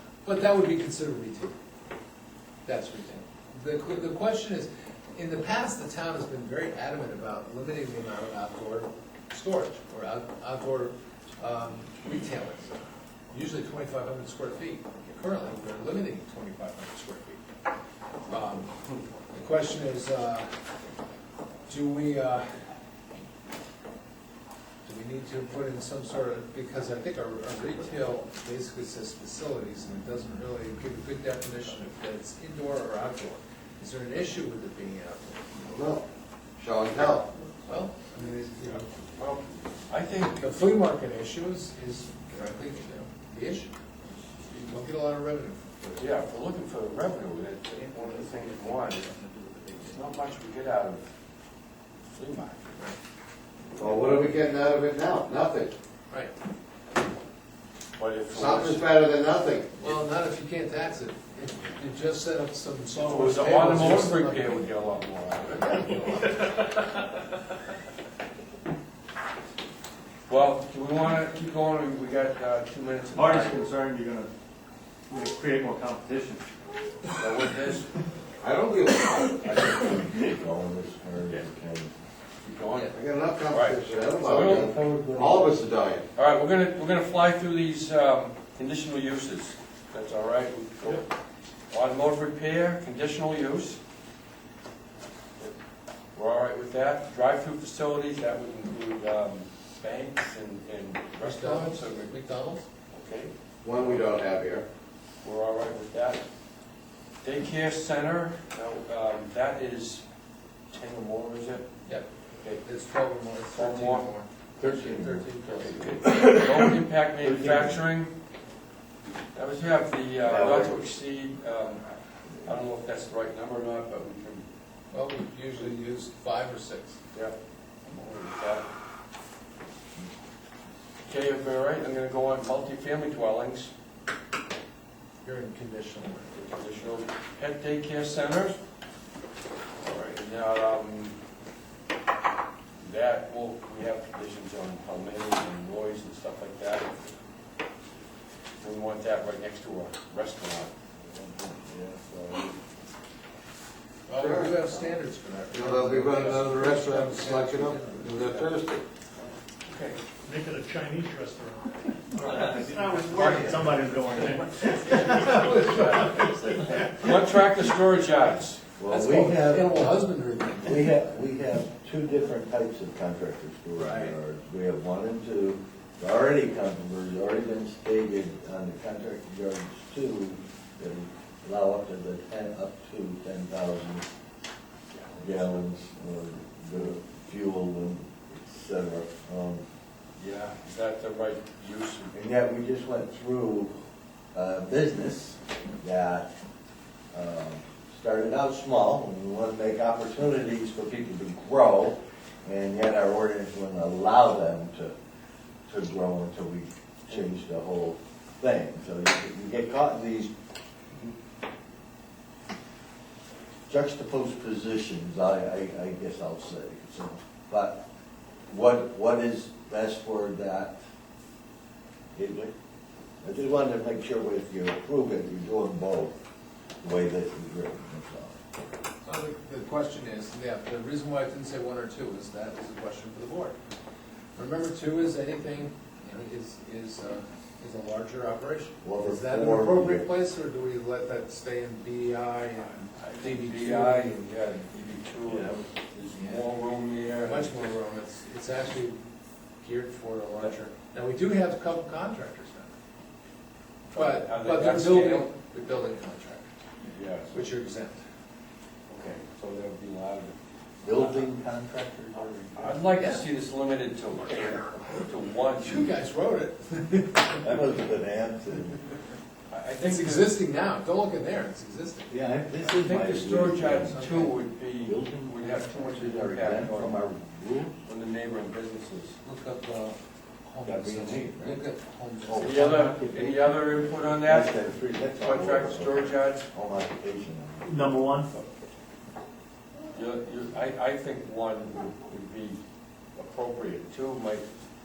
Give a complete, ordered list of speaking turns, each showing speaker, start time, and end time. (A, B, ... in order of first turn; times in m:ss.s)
0:00.2-0:01.5 A
0:02.6-0:17.4 A
0:18.3-0:18.7 A
0:19.3-0:20.5 A
0:21.7-0:22.4 A
0:24.8-0:35.4 A
0:35.6-0:36.0 B
0:36.6-0:37.5 B
0:37.7-0:38.9 A
0:39.2-0:40.5 C
0:40.4-0:43.7 A
0:44.6-0:46.0 A
0:46.0-0:49.1 C
0:49.7-0:51.1 C
0:52.1-0:52.7 C
0:53.8-0:55.7 B
0:58.0-0:58.9 C
0:58.3-0:59.7 B
0:59.8-1:04.6 A
1:03.0-1:06.0 C
1:05.6-1:06.6 A
1:10.3-1:13.7 C
1:13.1-1:14.3 D
1:15.1-1:16.4 D
1:17.2-1:17.9 C
1:18.4-1:19.7 B
1:19.4-1:21.9 E
1:22.4-1:23.0 C
1:22.9-1:26.0 B
1:23.5-1:24.8 C
1:24.3-1:25.6 E
1:26.1-1:31.1 C
1:31.7-1:33.8 C
1:36.1-1:42.1 C
1:41.2-1:42.6 A
1:42.9-1:44.1 C
1:43.6-1:44.6 B
1:45.2-1:46.2 C
1:47.2-1:50.0 C
1:50.7-1:51.7 C
1:52.6-1:56.2 A
1:53.5-1:54.1 C
1:54.6-1:55.2 E
1:55.5-1:58.1 C
1:56.0-1:56.3 E
1:57.2-1:57.8 E
1:59.3-2:01.8 C
2:00.2-2:00.8 E
2:02.4-2:04.4 C
2:04.9-2:07.0 A
2:07.1-2:08.7 C
2:11.0-2:13.7 C
2:15.2-2:16.4 A
2:16.3-2:18.6 C
2:19.8-2:21.2 C
2:22.8-2:27.1 C
2:28.6-2:30.7 C
2:31.1-2:32.5 E
2:34.1-2:38.6 A
2:34.1-2:34.7 B
2:35.5-2:38.8 B
2:39.7-2:40.0 C
2:40.2-2:46.8 F
2:42.2-2:43.8 C
2:42.3-2:45.0 D
2:44.9-2:48.6 C
2:45.7-2:46.2 D
2:48.8-2:49.8 E
2:48.9-2:50.9 A
2:50.6-3:04.0 E
2:53.8-2:54.1 A
3:04.9-3:05.6 C
3:05.2-3:09.6 E
3:10.2-3:12.1 C
3:12.1-3:13.7 E
3:14.3-3:16.3 E
3:17.1-3:24.9 E
3:25.7-3:30.3 E
3:33.7-3:37.8 E
3:38.5-3:40.8 E
3:42.2-3:42.5 E
3:43.2-3:46.2 E
3:46.8-3:48.4 E
3:49.0-3:53.6 A
3:54.3-4:04.5 A
3:58.8-4:00.1 E
4:02.9-4:07.7 C
4:05.2-4:05.7 E
4:07.2-4:09.0 A
4:09.6-4:12.7 A
4:13.9-4:15.3 C
4:13.9-4:16.5 A
4:16.9-4:17.5 C
4:17.3-4:18.0 A
4:18.9-4:20.3 C
4:20.8-4:22.8 E
4:22.5-4:25.9 C
4:23.0-4:23.3 A
4:25.6-4:27.7 A
4:27.4-4:28.8 E
4:29.5-4:30.4 C
4:29.8-4:32.1 A
4:32.1-4:34.0 E
4:32.7-4:37.0 C
4:33.6-4:34.4 A
4:34.8-4:37.8 E
4:37.8-4:39.2 C
4:39.2-4:43.4 A
4:40.6-4:41.6 E
4:42.2-4:43.3 E
4:42.3-4:44.6 C
4:44.2-4:47.8 E
4:45.2-4:46.5 C
4:47.6-4:48.3 D
4:49.9-4:52.6 C
4:53.2-4:54.4 C